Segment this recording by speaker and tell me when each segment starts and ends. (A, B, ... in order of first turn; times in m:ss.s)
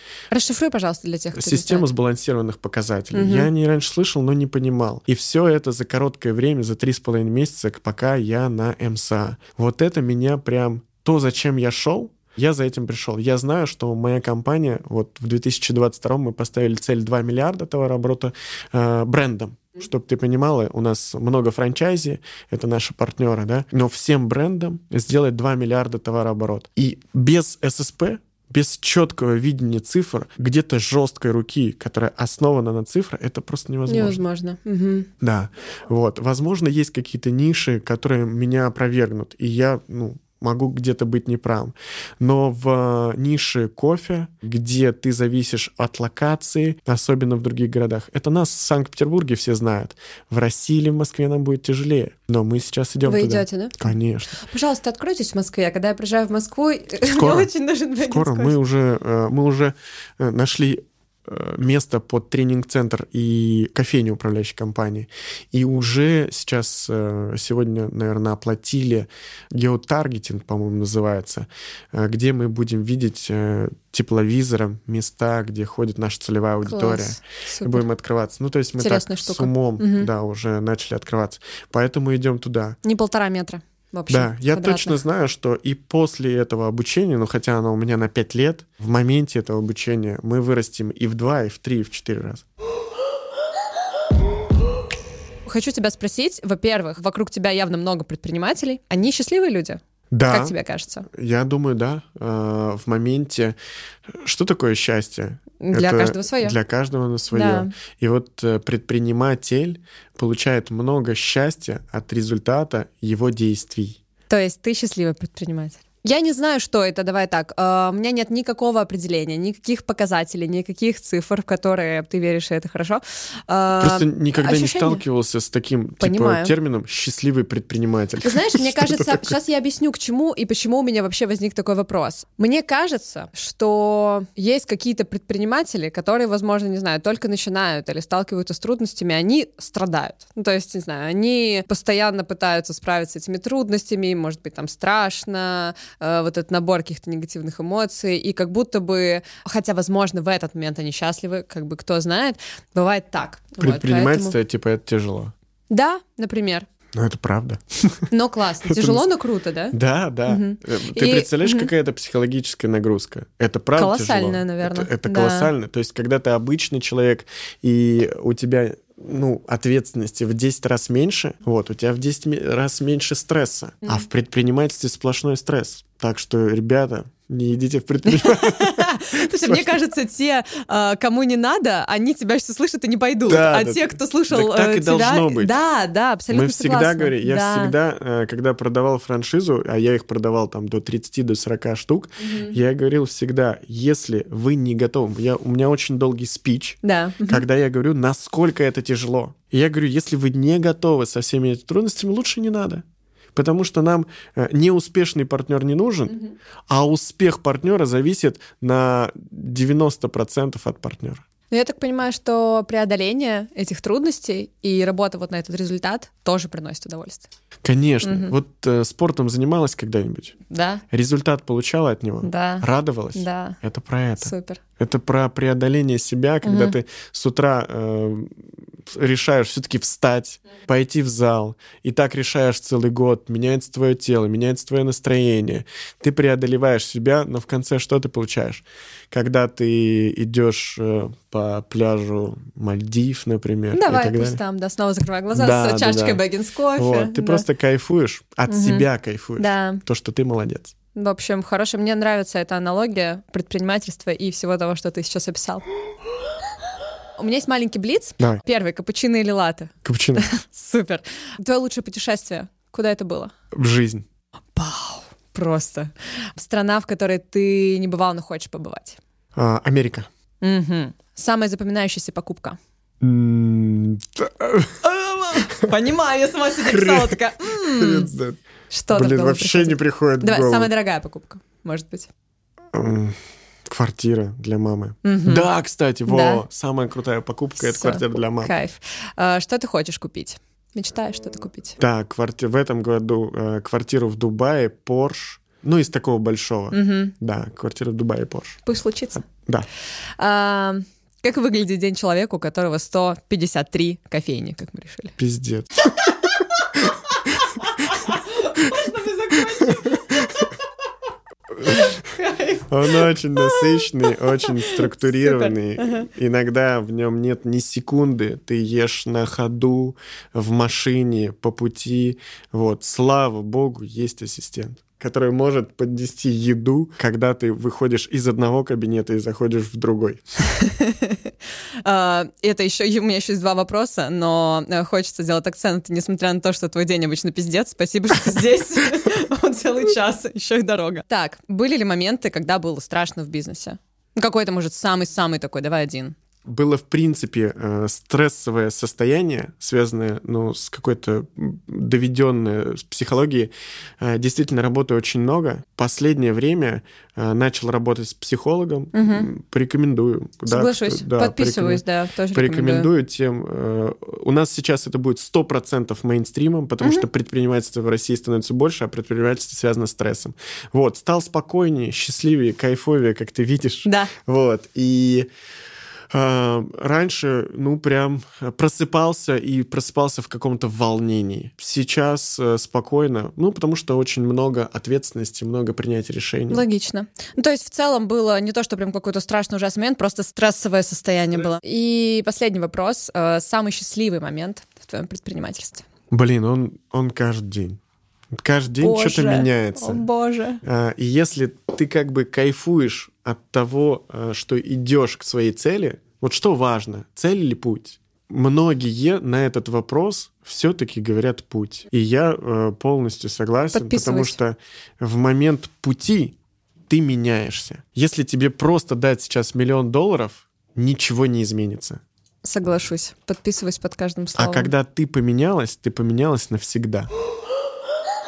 0:00.3-0:01.9 A
0:01.4-0:34.2 B
0:03.1-0:03.5 A
0:33.9-0:35.1 A
0:35.2-0:54.3 B
0:53.0-0:53.8 A
0:54.4-0:58.6 A
0:57.1-1:22.8 B
1:16.6-1:17.8 A
1:18.8-1:20.1 A
1:22.8-1:25.0 A
1:24.1-1:32.4 B
1:35.4-1:41.1 A
1:40.1-1:40.6 B
1:41.1-1:43.6 B
1:44.1-1:54.0 B
1:45.6-1:46.6 A
1:47.3-1:47.7 A
1:54.3-2:05.0 A
2:03.8-2:09.4 B
2:06.0-2:06.5 A
2:08.2-2:34.4 A
2:33.6-2:35.3 B
2:35.7-2:36.7 A
2:36.9-2:38.1 B
2:38.1-2:39.8 A
2:38.7-2:39.0 B
2:39.7-2:59.8 B
2:40.3-2:41.7 A
2:43.8-2:45.5 A
2:58.1-3:07.8 A
3:03.3-3:05.5 B
3:06.3-3:26.2 B
3:12.2-3:12.6 A
3:16.8-3:17.4 A
3:26.7-3:31.2 B
3:31.5-3:37.3 A
3:37.6-3:40.4 B
3:38.0-3:38.4 A
3:40.5-3:40.8 A
3:40.9-4:04.4 B
3:42.2-3:43.6 A
3:44.2-3:44.6 A
3:46.4-3:46.8 A
4:03.7-4:07.5 A
4:05.4-4:06.2 B
4:06.8-4:10.7 B
4:08.5-4:08.9 A
4:09.4-4:09.8 A
4:11.0-4:15.6 A
4:17.2-4:23.3 A
4:19.8-4:20.3 B
4:23.5-4:24.0 B
4:24.6-4:29.0 A
4:29.4-4:30.1 B
4:30.4-4:32.6 A
4:33.0-4:34.8 B
4:34.8-4:38.1 A
4:36.6-4:38.4 B
4:38.7-4:42.1 A
4:38.9-4:40.7 B
4:42.7-4:48.5 B
4:45.0-4:45.5 A
4:46.1-4:46.4 A
4:47.6-4:51.8 A
4:51.8-4:58.6 B
4:56.7-4:57.1 A
4:58.7-4:59.2 A
4:59.2-4:59.7 B
5:00.2-5:05.2 A
5:05.2-5:05.9 B
5:06.0-5:10.6 A
5:09.6-5:10.3 B
5:11.6-5:12.0 B
5:11.7-5:16.1 A
5:12.7-5:30.4 B
5:30.4-5:31.3 A
5:31.8-5:46.2 A
5:46.5-6:15.3 B
5:58.9-5:59.3 A
6:00.5-6:02.9 A
6:06.8-6:07.1 A
6:13.8-6:14.1 A
6:16.1-6:26.6 B
6:26.5-6:35.8 A
6:36.1-6:37.8 B
6:38.3-6:40.0 B
6:38.8-6:40.6 A
6:40.6-6:56.4 B
6:53.7-6:54.4 A
6:56.9-7:02.0 B
7:02.4-7:04.7 A
7:04.4-7:07.1 B